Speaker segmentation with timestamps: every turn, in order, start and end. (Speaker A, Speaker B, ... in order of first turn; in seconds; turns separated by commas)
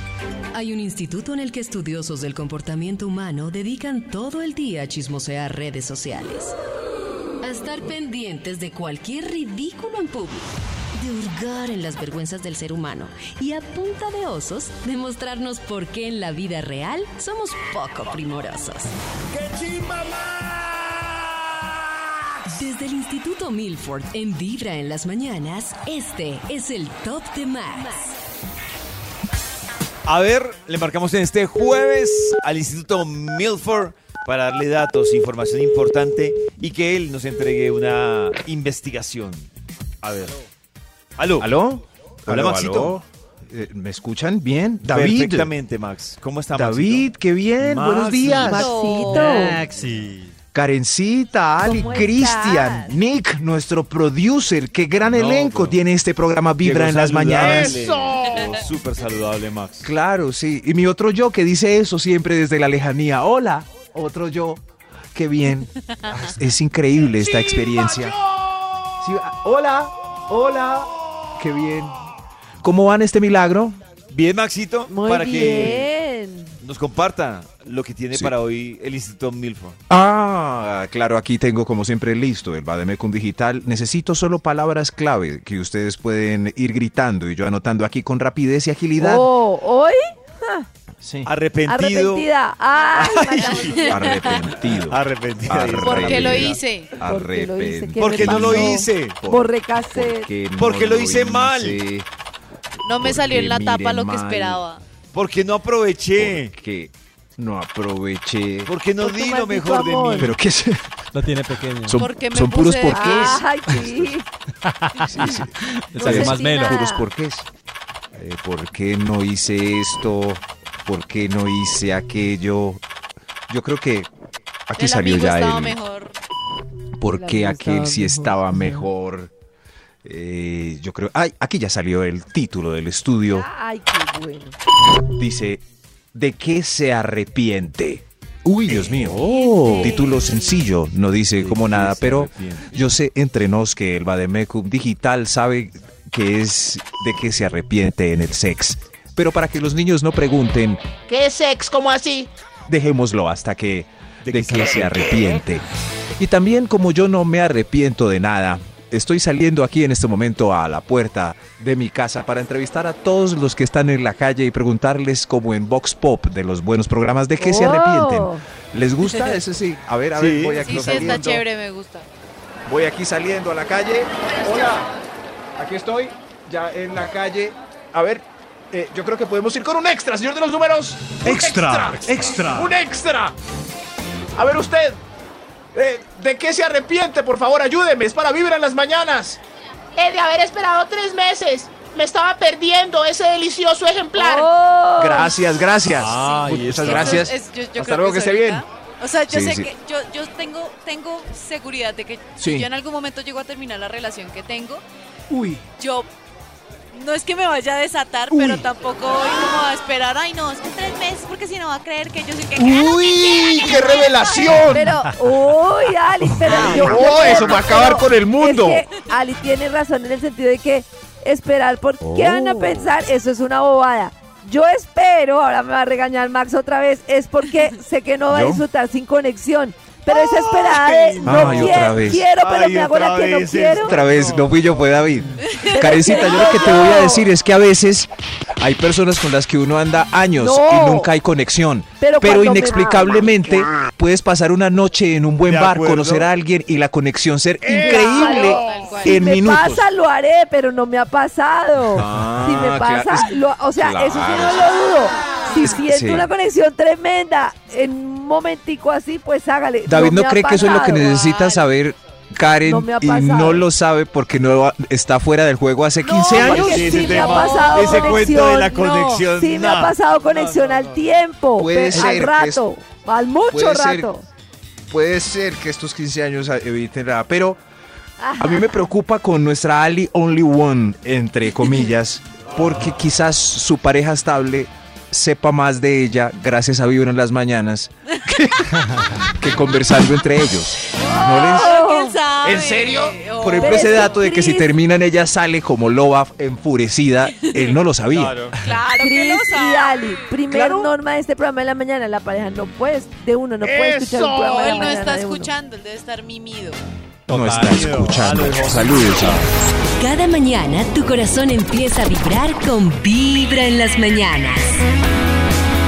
Speaker A: 0.5-6.5, Speaker A: 7.4-10.5, Speaker A: 11.0-18.9, Speaker A: 22.5-28.2, Speaker B: 30.1-39.5, Speaker B: 40.0-40.4, Speaker B: 41.2-41.5, Speaker C: 41.4-45.5, Speaker B: 42.3-42.9, Speaker B: 44.8-47.1, Speaker C: 46.5-48.8, Speaker B: 47.6-48.7, Speaker D: 48.2-49.6, Speaker E: 48.5-49.6, Speaker F: 49.2-50.4, Speaker C: 50.5-57.9, Speaker E: 51.6-53.0, Speaker B: 55.0-55.8, Speaker B: 56.6-59.9, Speaker G: 57.3-58.5, Speaker C: 59.8-64.6, Speaker C: 65.1-68.2, Speaker D: 65.9-66.3, Speaker G: 67.1-69.0, Speaker C: 69.0-72.0, Speaker C: 72.6-73.8, Speaker B: 74.1-75.9, Speaker E: 74.9-76.5, Speaker B: 76.6-79.8, Speaker C: 79.9-89.3, Speaker E: 89.0-90.7, Speaker C: 91.0-91.3, Speaker B: 91.2-92.3, Speaker E: 91.7-94.1, Speaker B: 92.9-96.6, Speaker D: 93.0-94.4, Speaker C: 93.8-102.1, Speaker D: 95.8-97.0, Speaker E: 97.0-100.3, Speaker B: 98.0-99.2, Speaker B: 100.5-101.8, Speaker D: 102.8-104.8, Speaker C: 102.9-104.6, Speaker B: 105.1-106.5, Speaker C: 106.1-108.7, Speaker B: 108.7-110.3, Speaker E: 109.0-110.3, Speaker C: 110.1-111.0, Speaker F: 111.1-112.0, Speaker C: 111.8-114.2, Speaker D: 111.9-113.4, Speaker E: 112.9-114.2, Speaker F: 114.6-116.8, Speaker C: 115.0-117.5, Speaker E: 115.9-117.1, Speaker C: 118.1-122.8, Speaker C: 123.5-124.1, Speaker C: 124.7-125.8, Speaker D: 124.8-126.2, Speaker C: 127.0-129.3, Speaker E: 127.1-128.9, Speaker C: 130.0-133.5, Speaker E: 133.3-134.6, Speaker C: 135.1-135.6, Speaker C: 136.1-150.8, Speaker B: 138.7-139.2, Speaker E: 139.2-140.2, Speaker A: 139.3-139.7, Speaker B: 141.4-142.7, Speaker G: 151.1-152.3, Speaker C: 152.7-155.6, Speaker B: 154.2-155.6, Speaker C: 156.2-171.4, Speaker E: 167.4-168.4, Speaker B: 170.1-171.2, Speaker D: 170.6-172.1, Speaker C: 172.7-174.9, Speaker C: 175.6-183.3, Speaker G: 181.2-181.9, Speaker B: 181.2-182.7, Speaker C: 184.4-185.0, Speaker C: 185.7-189.4, Speaker G: 189.9-194.5, Speaker E: 194.1-195.3, Speaker C: 195.0-198.6, Speaker B: 195.9-197.3, Speaker D: 196.1-204.8, Speaker C: 199.3-199.7, Speaker C: 202.4-202.7, Speaker C: 205.3-205.6, Speaker D: 205.8-206.1, Speaker D: 206.9-214.8, Speaker C: 208.3-208.7, Speaker C: 212.6-214.8, Speaker E: 214.7-233.9, Speaker B: 216.3-216.9, Speaker C: 216.4-218.8, Speaker G: 217.3-217.6, Speaker A: 222.2-222.9, Speaker C: 228.3-228.6, Speaker B: 230.1-234.8, Speaker C: 231.2-232.2, Speaker C: 233.7-249.9, Speaker D: 235.4-236.2, Speaker E: 235.7-237.3, Speaker E: 240.4-241.1, Speaker E: 242.0-243.2, Speaker B: 245.4-246.3, Speaker G: 247.6-248.8, Speaker E: 247.8-261.1, Speaker D: 247.9-249.2, Speaker C: 251.9-254.8, Speaker C: 255.6-256.3, Speaker C: 259.8-267.1, Speaker D: 260.7-261.7, Speaker E: 262.6-263.6, Speaker E: 266.0-274.2, Speaker B: 266.3-271.0, Speaker D: 266.7-269.2, Speaker C: 271.5-272.6, Speaker C: 273.5-274.1, Speaker C: 274.9-277.6, Speaker E: 278.2-278.6, Speaker C: 278.4-291.8, Speaker E: 290.9-292.2, Speaker D: 291.0-294.2, Speaker C: 292.4-292.8, Speaker G: 292.4-293.2, Speaker C: 293.4-298.4, Speaker E: 293.6-294.7, Speaker D: 297.4-297.8, Speaker B: 298.1-298.5, Speaker D: 298.6-300.3, Speaker E: 299.0-305.5, Speaker C: 300.5-300.9, Speaker G: 303.6-304.6, Speaker D: 304.3-306.8, Speaker F: 307.3-307.9, Speaker C: 307.3-309.5, Speaker B: 307.5-309.4, Speaker A: 310.0-314.8